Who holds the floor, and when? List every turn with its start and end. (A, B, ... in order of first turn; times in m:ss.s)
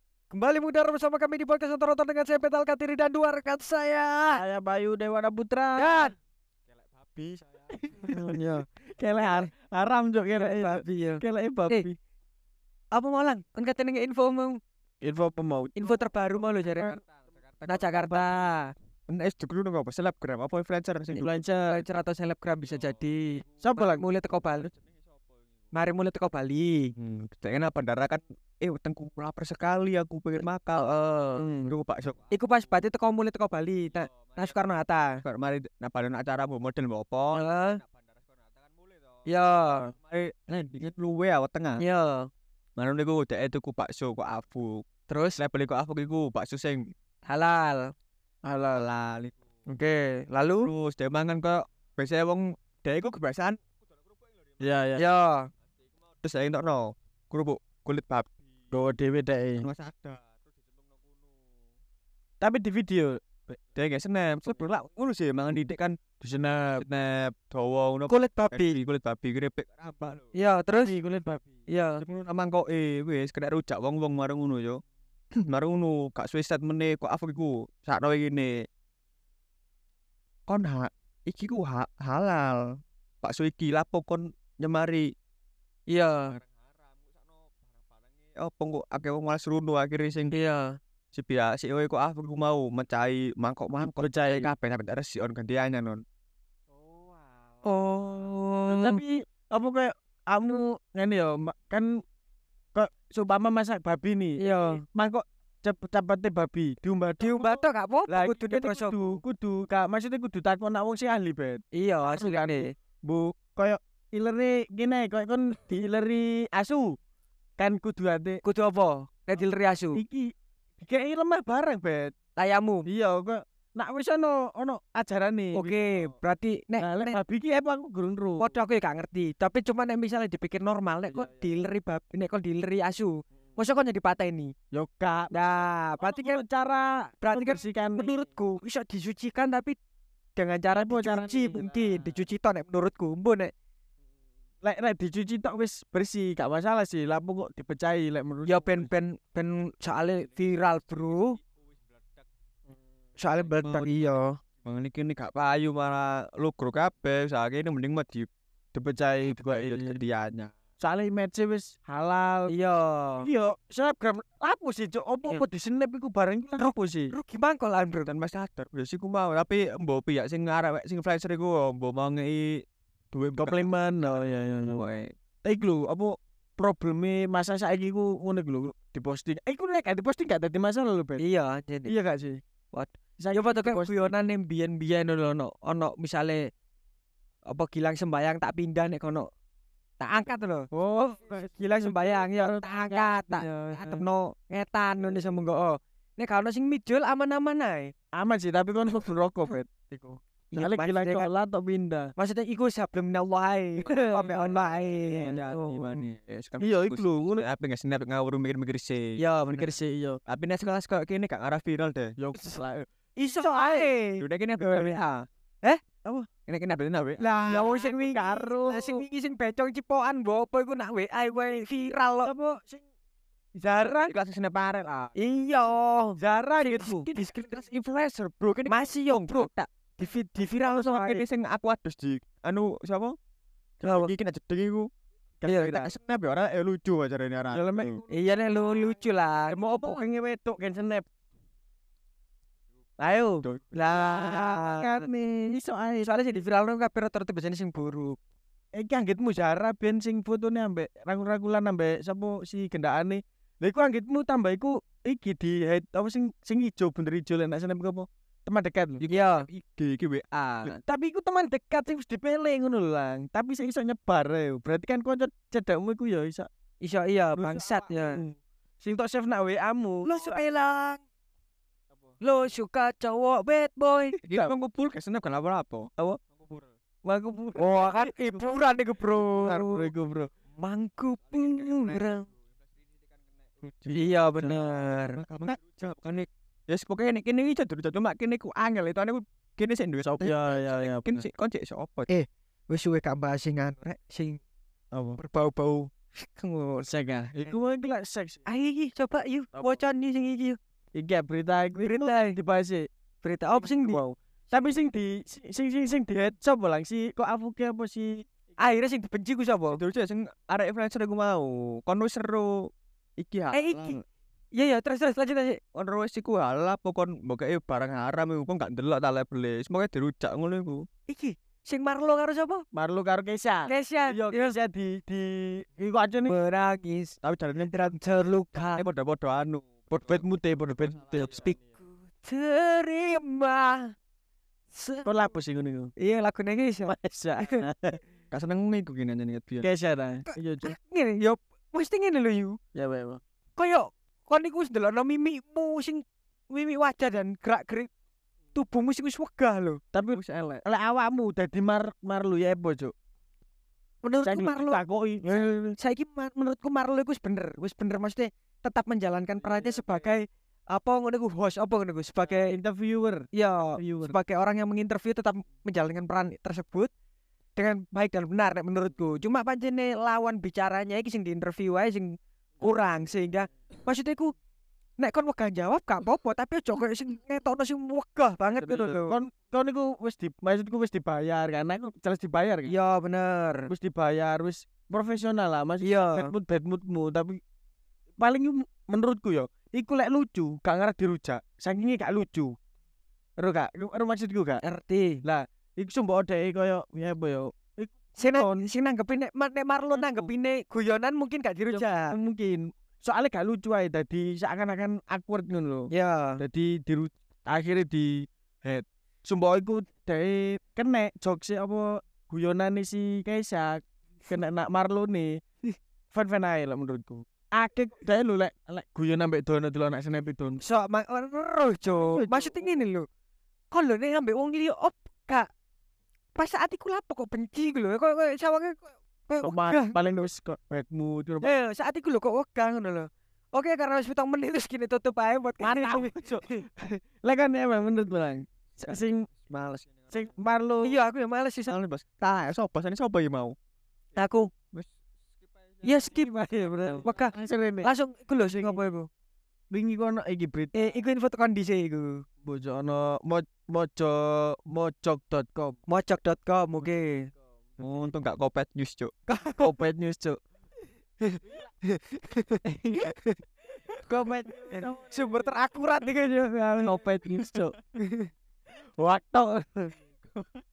0:00.3-0:04.4 A
0:04.3-0:06.0 B
0:05.8-0:06.1 A
0:07.1-0:08.1 C
0:08.0-0:12.0 B
0:10.6-0:11.8 A
0:12.9-0:14.6 A
0:15.0-0:15.9 B
0:15.8-0:17.0 A
0:17.6-0:18.7 A
0:19.1-0:21.3 C
0:21.1-0:21.8 B
0:21.7-0:24.7 A
0:23.6-0:24.0 B
0:25.7-0:26.9 A
0:27.0-0:31.0 C
0:30.9-0:31.4 A
0:31.4-0:31.7 B
0:31.6-0:32.2 C
0:32.3-0:35.2 A
0:35.2-0:37.4 C
0:37.3-0:37.8 A
0:39.2-0:39.9 A
0:40.0-0:41.8 C
0:41.8-0:42.3 A
0:42.8-0:46.9 C
0:45.1-0:45.4 A
0:47.2-0:47.9 A
0:48.4-0:48.8 B
0:48.7-0:49.3 C
0:49.7-0:50.7 A
0:50.6-0:53.6 C
0:54.6-0:55.0 B
0:55.0-0:55.5 A
0:56.2-0:58.3 C
0:58.7-0:59.7 B
0:59.6-1:00.2 C
1:02.4-1:03.6 B
1:03.7-1:06.0 C
1:06.2-1:06.8 B
1:06.8-1:10.2 C
1:08.1-1:08.8 A
1:10.3-1:10.9 A
1:10.8-1:11.5 B
1:11.7-1:12.0 A
1:12.0-1:18.7 C
1:20.5-1:25.1 C
1:25.9-1:26.4 A
1:28.3-1:30.4 C
1:30.3-1:30.8 A
1:31.1-1:36.0 C
1:34.0-1:34.5 B
1:36.9-1:37.2 B
1:37.6-1:39.0 A
1:38.7-1:42.0 B
1:42.7-1:57.0 B
1:44.4-1:44.8 A
1:47.2-1:49.2 A
1:51.7-1:52.7 A
1:57.6-1:58.4 B
1:58.4-2:00.0 A
1:59.9-2:02.1 B
2:02.4-2:02.8 A
2:02.8-2:05.7 B
2:05.5-2:07.2 A
2:06.8-2:08.5 B
2:08.4-2:14.5 A
2:14.7-2:18.1 B
2:15.3-2:16.4 A
2:17.2-2:19.8 A
2:20.4-2:23.5 A
2:20.9-2:22.0 B
2:24.6-2:28.8 B
2:28.4-2:31.4 A
2:33.2-2:34.4 A
2:33.6-2:33.9 C
2:34.6-2:38.3 C
2:38.7-2:40.0 B
2:39.2-2:40.5 C
2:40.8-2:42.5 B
2:42.5-2:43.3 A
2:43.2-2:47.1 B
2:47.1-2:48.1 A
2:48.0-2:53.7 C
2:53.4-2:54.8 B
2:54.7-2:55.1 C
2:55.4-3:01.2 B
3:01.2-3:01.9 A
3:01.8-3:02.4 B
3:02.7-3:06.5 A
3:03.2-3:04.1 B
3:07.4-3:09.3 A
3:10.0-3:10.7 A
3:10.7-3:14.0 B
3:11.6-3:17.9 A
3:18.2-3:22.1 B
3:20.5-3:21.3 A
3:22.2-3:26.0 A
3:23.9-3:24.3 B
3:25.2-3:26.0 B
3:25.9-3:29.2 C
3:26.6-3:27.4 B
3:29.2-3:29.7 A
3:29.6-3:30.2 B
3:30.2-3:32.2 C
3:32.2-3:33.9 B
3:33.2-3:35.0 A
3:34.2-3:35.3 C
3:36.4-3:37.3 C
3:37.2-3:42.3 A
3:37.3-3:39.0 B
3:42.2-3:42.8 B
3:43.6-3:44.0 B
3:43.8-3:44.1 A
3:44.1-3:45.1 C
3:45.2-3:47.6 A
3:46.2-3:47.1 B
3:47.4-3:49.5 C
3:48.7-3:51.2 A
3:50.7-3:53.2 C
3:53.8-3:54.1 A
3:53.9-3:54.9 C
3:55.4-3:55.9 B
3:55.5-3:58.0 C
3:57.5-3:58.0 B
3:58.1-3:59.9 A
3:59.5-4:01.0 B
4:03.0-4:06.1 B
4:03.4-4:03.7 C
4:03.7-4:05.0 A
4:06.0-4:08.2 A
4:08.7-4:19.0 B
4:19.0-4:20.7 C
4:19.0-4:19.5 A
4:20.7-4:26.5 B
4:26.8-4:28.2 A
4:27.3-4:30.4 B
4:30.0-4:31.0 A
4:32.2-4:34.2 A
4:34.2-4:35.9 C
4:37.0-4:38.4 B
4:37.6-4:39.9 A
4:39.4-4:40.3 B
4:40.6-4:42.3 A
4:43.8-4:45.2 A
4:45.2-4:46.0 C
4:46.7-4:52.1 C
4:50.2-4:51.2 B
4:52.1-4:54.4 A
4:54.9-4:55.2 B
4:55.2-4:56.9 A
4:56.8-4:58.4 B
4:58.5-5:00.6 A
4:59.5-4:59.8 B
5:00.9-5:02.9 B
5:01.8-5:02.4 A
5:03.2-5:04.0 A
5:03.6-5:08.2 B
5:08.6-5:09.8 A
5:09.7-5:14.0 C
5:13.5-5:14.0 A
5:14.5-5:15.6 A
5:15.7-5:20.9 C
5:21.1-5:22.6 A
5:22.7-5:26.4 B
5:23.7-5:24.6 A
5:26.3-5:27.2 A
5:27.2-5:27.9 C
5:27.7-5:28.8 A
5:28.8-5:30.3 C
5:29.9-5:31.4 B
5:31.1-5:33.9 A
5:34.7-5:35.1 A
5:35.0-5:35.9 B
5:36.0-5:37.6 A
5:36.9-5:38.0 B
5:38.3-5:39.7 C
5:39.6-5:40.7 B
5:40.6-5:42.6 A
5:42.7-5:43.2 B
5:43.6-5:47.9 A
5:48.5-5:49.8 A
5:49.9-5:52.9 B
5:54.0-6:02.5 A
5:54.2-5:55.7 B
6:02.3-6:04.1 B
6:03.3-6:06.9 A
6:07.6-6:14.3 A
6:15.0-6:19.2 A
6:18.6-6:22.7 B
6:22.7-6:23.7 A
6:23.7-6:27.4 B
6:25.8-6:26.3 A
6:28.2-6:32.5 B
6:33.4-6:34.6 B
6:34.6-6:35.2 A
6:35.2-6:38.6 B
6:38.2-6:42.2 A
6:41.7-6:55.4 B
6:45.9-6:46.4 A
6:56.1-7:00.6 B
7:00.6-7:03.1 A
7:01.9-7:02.7 B
7:03.7-7:05.5 A
7:06.4-7:10.0 A
7:09.4-7:11.5 B
7:11.4-7:16.6 A
7:15.6-7:19.3 B
7:19.5-7:20.1 C
7:20.1-7:21.0 B
7:20.8-7:21.7 A
7:21.7-7:23.6 C
7:24.2-7:24.5 A
7:25.8-7:29.1 A
7:26.7-7:27.9 B
7:28.5-7:28.8 B
7:29.7-7:30.7 B
7:30.7-7:32.2 A
7:32.4-7:35.8 B
7:35.9-7:37.3 A
7:37.8-7:39.1 C
7:39.3-7:39.7 A
7:39.5-7:40.4 B
7:41.2-7:43.4 A
7:44.0-7:45.1 B
7:44.7-7:47.0 A
7:46.8-7:47.7 B
7:47.9-7:48.3 A
7:49.0-7:49.9 B